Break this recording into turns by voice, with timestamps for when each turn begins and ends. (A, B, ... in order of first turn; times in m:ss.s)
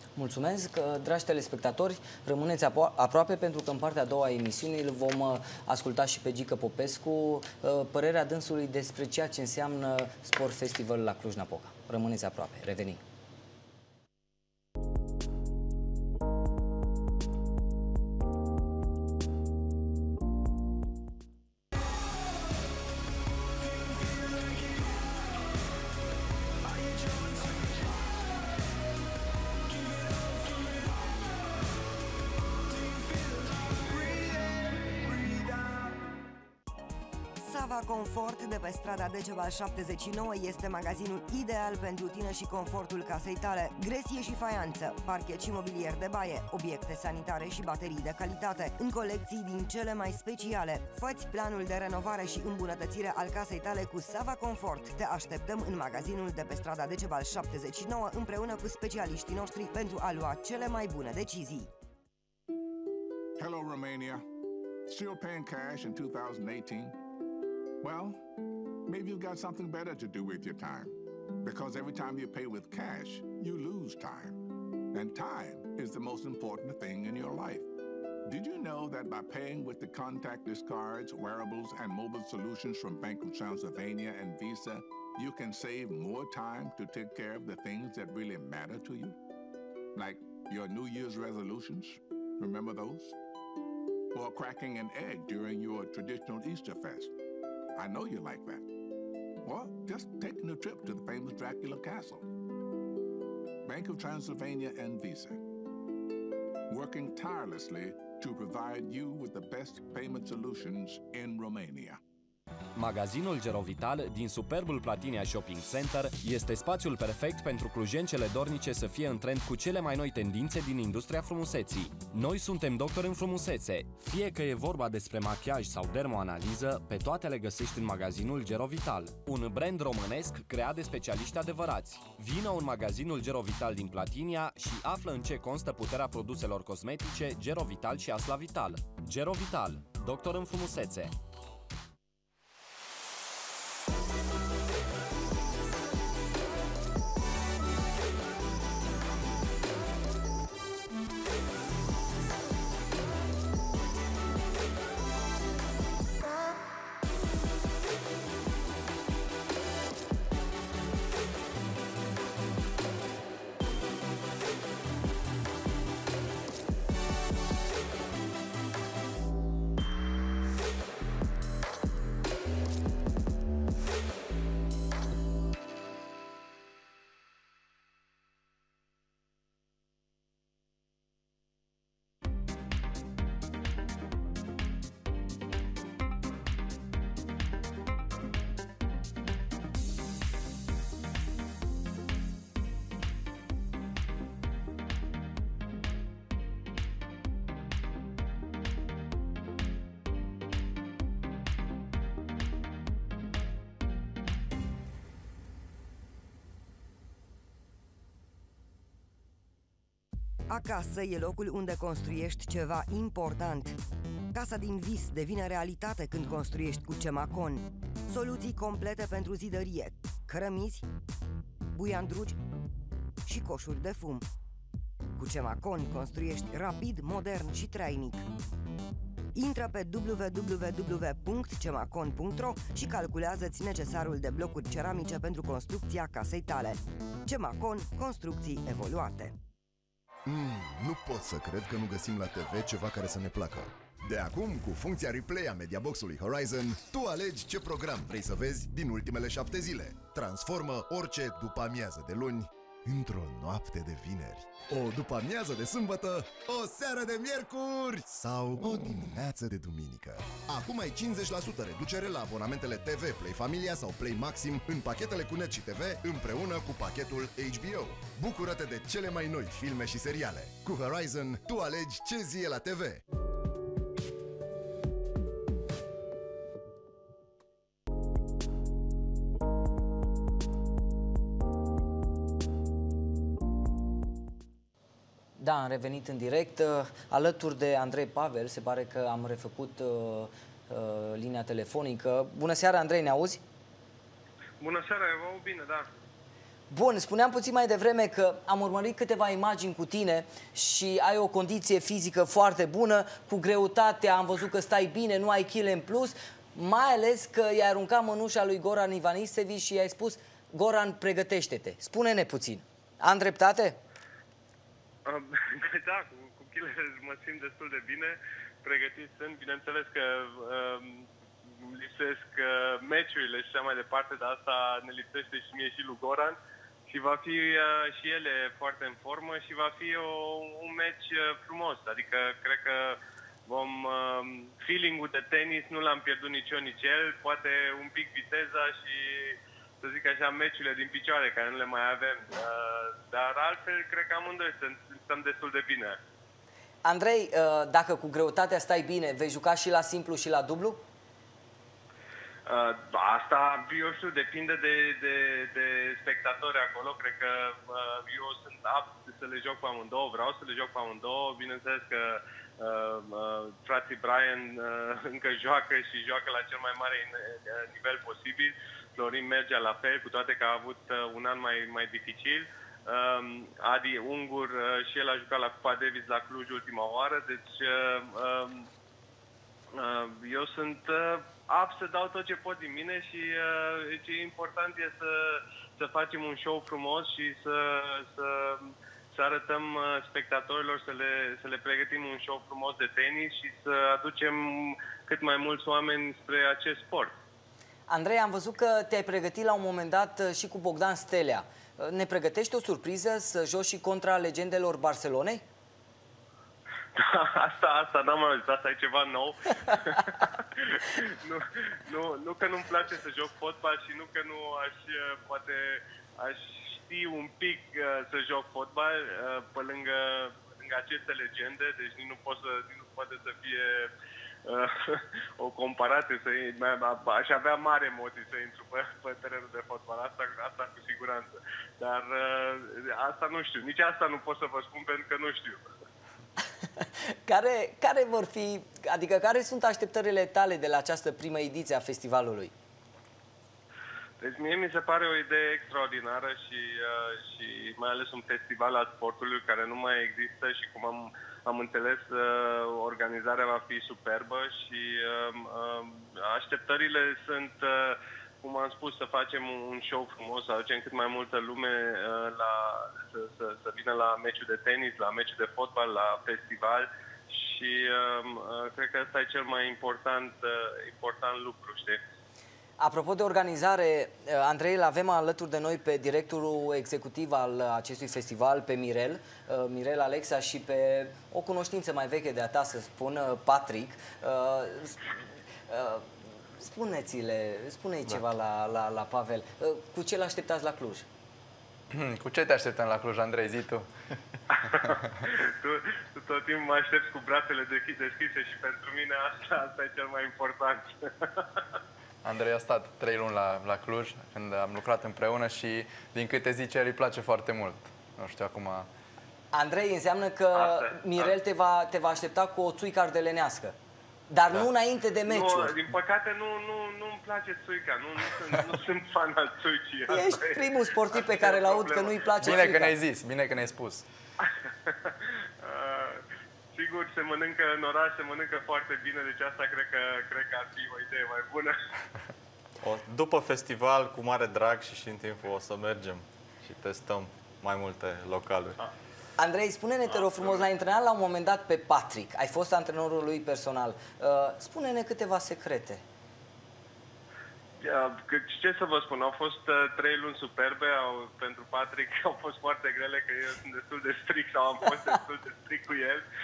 0:00.2-0:13.0 A
0:33.3-0:34.4 B
0:37.4-1:01.7 C
1:03.4-1:04.2 B
1:04.9-1:07.0 B
1:07.8-1:08.2 B
1:08.9-1:14.4 B
1:14.9-1:17.6 B
1:18.3-1:29.2 B
1:29.9-1:33.2 B
1:34.1-1:37.1 B
1:37.8-1:38.6 B
1:39.4-1:42.3 B
1:43.6-1:45.4 B
1:46.7-1:52.0 B
1:52.8-2:21.1 D
3:30.5-3:33.8 C
3:34.3-3:40.9 C
3:41.7-3:42.4 C
3:43.3-3:44.2 C
3:45.2-3:48.2 C
3:49.4-3:59.4 C
4:00.3-4:33.0 E
4:45.4-4:53.4 A
4:54.6-4:55.9 F
4:56.7-5:13.8 A
5:15.1-5:26.4 F
5:26.9-5:46.0 F
5:46.8-5:50.8 A
5:52.5-6:18.7 F
6:19.7-6:37.1 F
6:37.9-6:45.4 A
6:46.9-7:03.9 F
7:04.4-7:15.6 F
7:16.8-7:22.5 A
7:24.2-7:52.0 F
7:52.8-8:05.0 A
8:05.7-8:11.1 A
8:11.9-8:13.9 G
8:14.6-8:21.6 F
8:22.2-8:28.9 G
8:29.5-8:33.8 A
8:30.6-8:31.3 F
8:34.3-8:35.8 A
8:35.3-8:42.7 F
8:40.1-8:42.9 A
8:42.4-8:44.0 G
8:44.5-8:51.8 F
8:52.8-8:58.8 H
8:59.4-9:06.0 A
9:07.8-9:16.2 F